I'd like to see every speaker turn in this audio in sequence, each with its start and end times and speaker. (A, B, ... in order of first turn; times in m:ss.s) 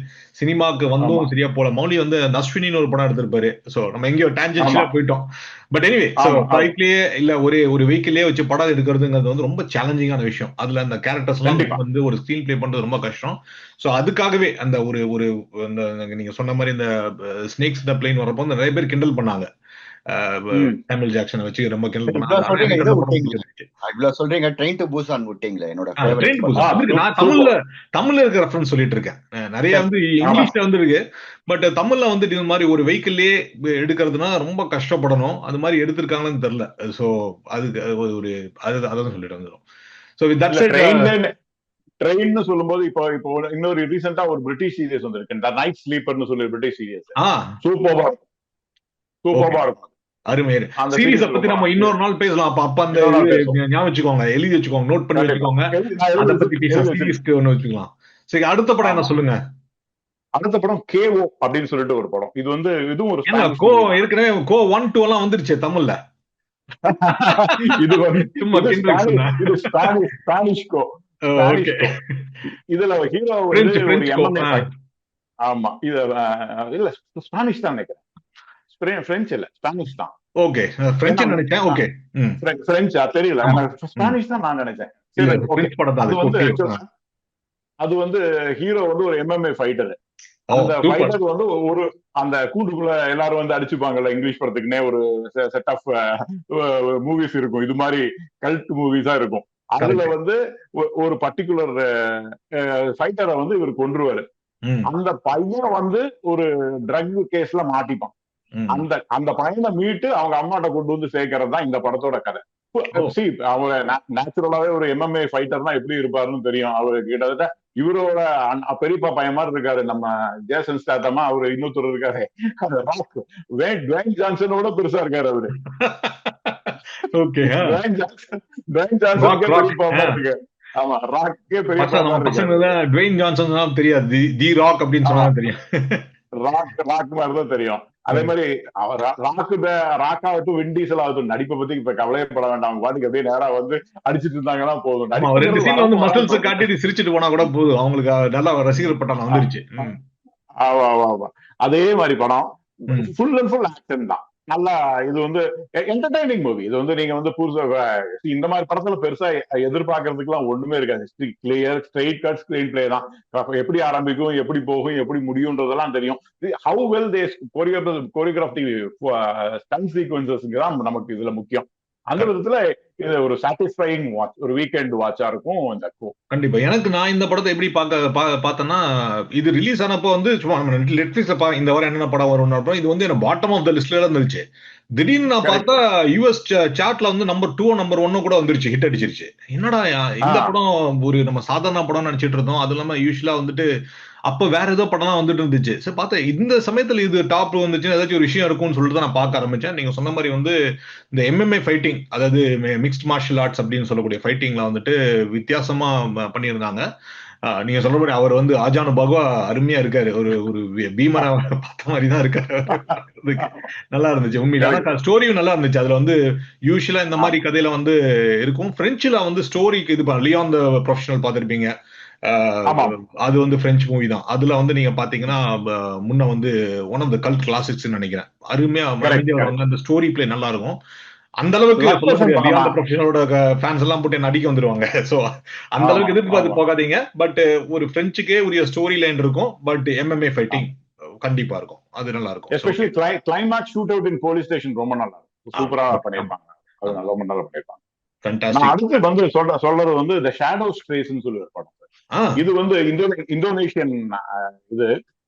0:00.4-0:19.5 A
0:01.0-0:01.3 B
0:04.6-0:04.9 B
0:06.2-0:06.7 B
0:11.4-0:11.8 B
0:20.1-0:23.7 A
0:22.1-0:26.8 C
0:26.0-0:39.6 A
0:26.6-0:27.5 B
0:29.7-0:30.5 B
0:40.2-0:41.1 A
0:40.5-0:41.3 B
0:42.0-0:48.2 B
0:47.2-0:47.6 A
0:49.2-0:49.9 B
0:49.3-0:49.6 A
0:50.3-0:59.4 A
0:50.8-0:51.9 B
0:52.9-0:53.6 B
0:55.1-0:57.2 B
0:58.8-0:59.1 B
1:00.4-1:03.9 B
1:03.3-1:06.0 A
1:06.9-1:12.0 B
1:07.4-1:09.9 A
1:11.2-1:12.4 A
1:12.5-1:14.7 B
1:13.5-1:14.7 A
1:15.5-1:18.0 B
1:18.7-1:20.1 B
1:20.4-1:22.4 A
1:21.1-1:21.8 B
1:22.4-1:26.8 B
1:23.4-1:24.2 A
1:25.2-1:26.8 A
1:27.8-1:30.0 B
1:30.5-1:31.2 A
1:30.5-1:44.2 B
1:39.8-1:40.1 A
1:44.9-1:48.1 B
1:48.6-1:48.9 A
1:48.7-2:05.6 B
2:05.6-2:07.8 A
2:07.5-2:12.8 B
2:09.2-2:10.2 A
2:11.8-2:16.1 A
2:15.0-2:15.3 B
2:16.4-2:26.7 B
2:25.2-2:30.0 A
2:29.3-2:29.9 B
2:30.6-2:56.1 B
2:56.3-2:58.8 A
2:59.4-3:04.4 A
3:05.0-3:13.6 A
3:05.4-3:05.8 B
3:10.3-3:10.5 B
3:14.3-3:20.6 A
3:21.1-3:26.8 A
3:27.4-3:41.7 A
3:33.4-3:33.7 B
3:42.2-3:50.8 A
3:42.7-3:42.9 B
3:49.0-3:49.5 B
3:51.4-4:02.8 A
3:51.8-3:52.8 B
3:55.8-3:56.6 B
4:02.5-4:07.8 B
4:05.6-4:06.3 A
4:08.2-4:08.8 A
4:08.5-4:11.8 B
4:12.1-4:12.4 A
4:12.4-4:14.9 B